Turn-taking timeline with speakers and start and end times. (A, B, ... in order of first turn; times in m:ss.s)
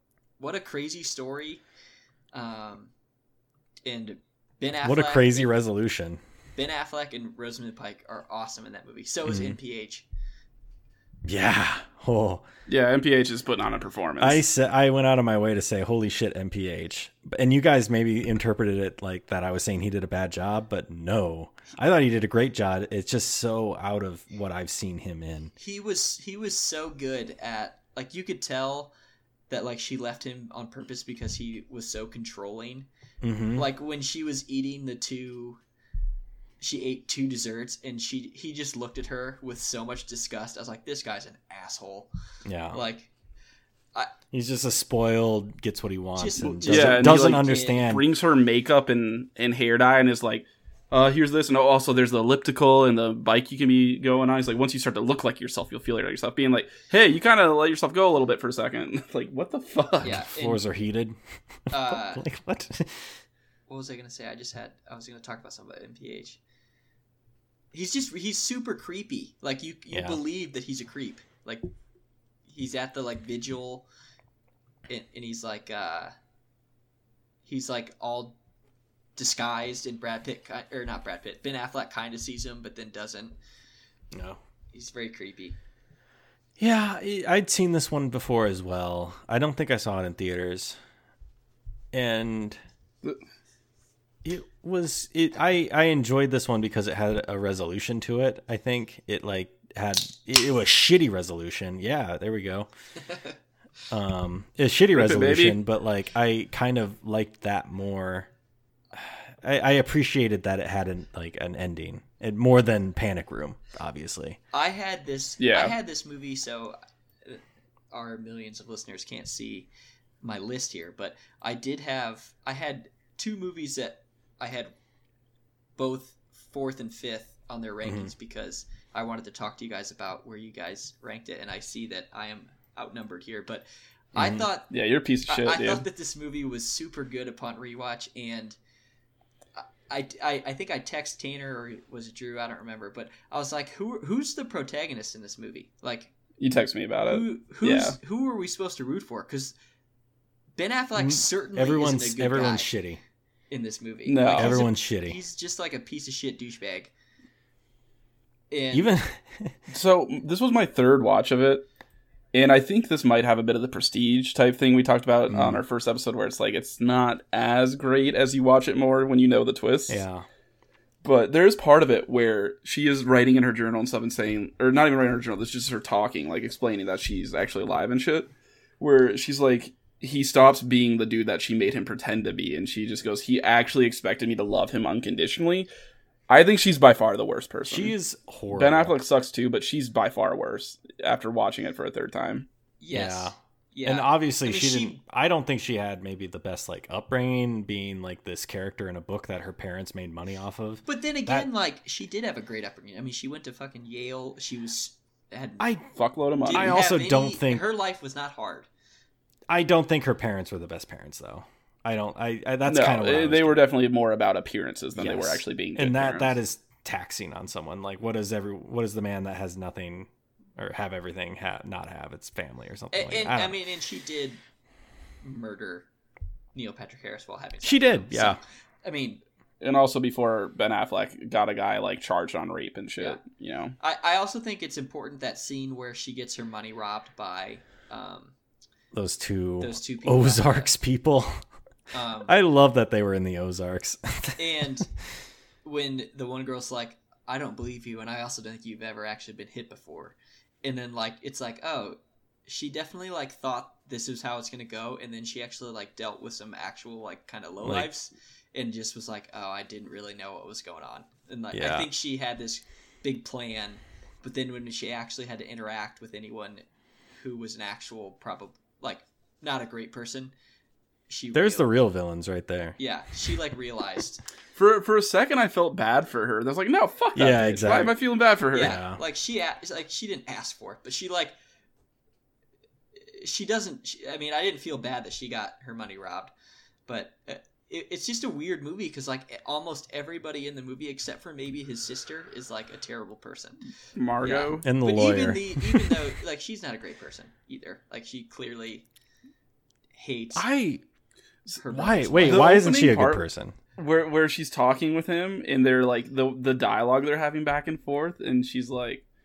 0:00.4-0:01.6 A
0:02.3-0:02.9 A
0:03.8-0:05.5 A
0:04.8-0:06.2 B
0:06.6-0:10.0 A
0:09.3-0:09.6 B
0:11.2-0:12.4 B
0:12.7-0:14.4 C
0:14.2-0:25.5 B
0:25.6-0:28.9 A
0:29.5-0:32.9 A
0:33.2-0:33.6 B
0:33.6-0:35.6 A
0:36.6-0:42.1 A
0:42.4-0:42.8 B
0:42.7-0:43.1 A
0:44.3-0:48.0 B
0:46.1-0:47.8 A
0:46.6-1:00.2 C
1:00.0-1:00.6 A
1:00.0-1:01.2 B
1:01.7-1:03.2 B
1:01.7-1:02.2 A
1:03.7-1:06.4 A
1:07.7-1:11.6 A
1:09.9-1:10.2 B
1:12.5-1:13.8 A
1:14.9-1:16.1 A
1:17.4-1:18.4 A
1:19.2-1:23.4 A
1:24.1-1:24.4 B
1:24.7-1:25.6 A
1:26.6-1:30.8 B
1:31.9-1:32.6 B
1:34.2-1:42.7 B
1:43.9-1:48.3 B
1:44.9-1:45.6 C
1:48.9-1:54.4 B
1:54.5-1:57.4 A
1:55.4-1:55.7 C
1:57.9-1:59.7 A
2:00.2-2:04.7 A
2:05.8-2:14.7 A
2:07.8-2:08.1 B
2:14.1-2:14.4 B
2:14.7-2:15.8 C
2:15.3-2:18.6 A
2:19.6-2:26.1 A
2:26.4-2:28.0 C
2:27.0-2:29.5 A
2:30.6-2:32.7 A
2:31.0-2:33.0 B
2:33.5-2:36.9 A
2:34.0-2:34.6 C
2:34.3-2:35.2 B
2:38.5-2:38.9 A
2:38.7-2:39.6 B
2:39.7-2:41.6 C
2:42.3-2:50.0 C
2:45.3-2:45.6 B
2:49.9-2:50.2 B
2:51.0-3:05.7 C
3:06.3-3:07.9 C
3:07.7-3:09.0 B
3:08.5-3:12.4 C
3:12.8-3:15.0 A
3:12.9-3:21.5 B
3:20.8-3:25.7 A
3:25.6-3:25.9 B
3:25.9-3:26.8 C
3:26.4-3:28.7 A
3:26.5-3:27.6 B
3:29.5-3:33.6 B
3:32.7-3:36.3 C
3:34.9-3:43.6 B
3:42.9-3:44.4 A
3:45.2-3:45.9 A
3:46.5-3:49.2 A
3:47.6-3:48.4 B
3:49.6-3:53.8 C
3:53.8-3:58.3 A
3:58.9-4:01.3 B
3:59.6-4:00.7 A
4:01.9-4:02.3 A
4:02.2-4:04.8 B
4:04.4-4:04.9 A
4:05.6-4:26.6 A
4:17.6-4:17.9 B
4:21.5-4:21.9 B
4:27.2-4:30.3 A
4:31.1-4:31.7 A
4:31.3-4:32.8 B
4:32.8-4:34.2 A
4:34.5-4:38.8 C
4:37.1-4:37.9 B
4:38.5-4:41.3 A
4:38.6-4:39.0 B
4:43.0-4:46.3 A
4:46.9-4:53.7 A
4:54.0-4:54.7 C
4:54.2-4:58.8 A
4:54.6-4:56.0 B
5:00.0-5:00.4 A
5:00.3-5:00.8 B
5:01.6-5:02.6 A
5:01.7-5:03.6 B
5:02.2-5:03.2 C
5:03.8-5:09.0 C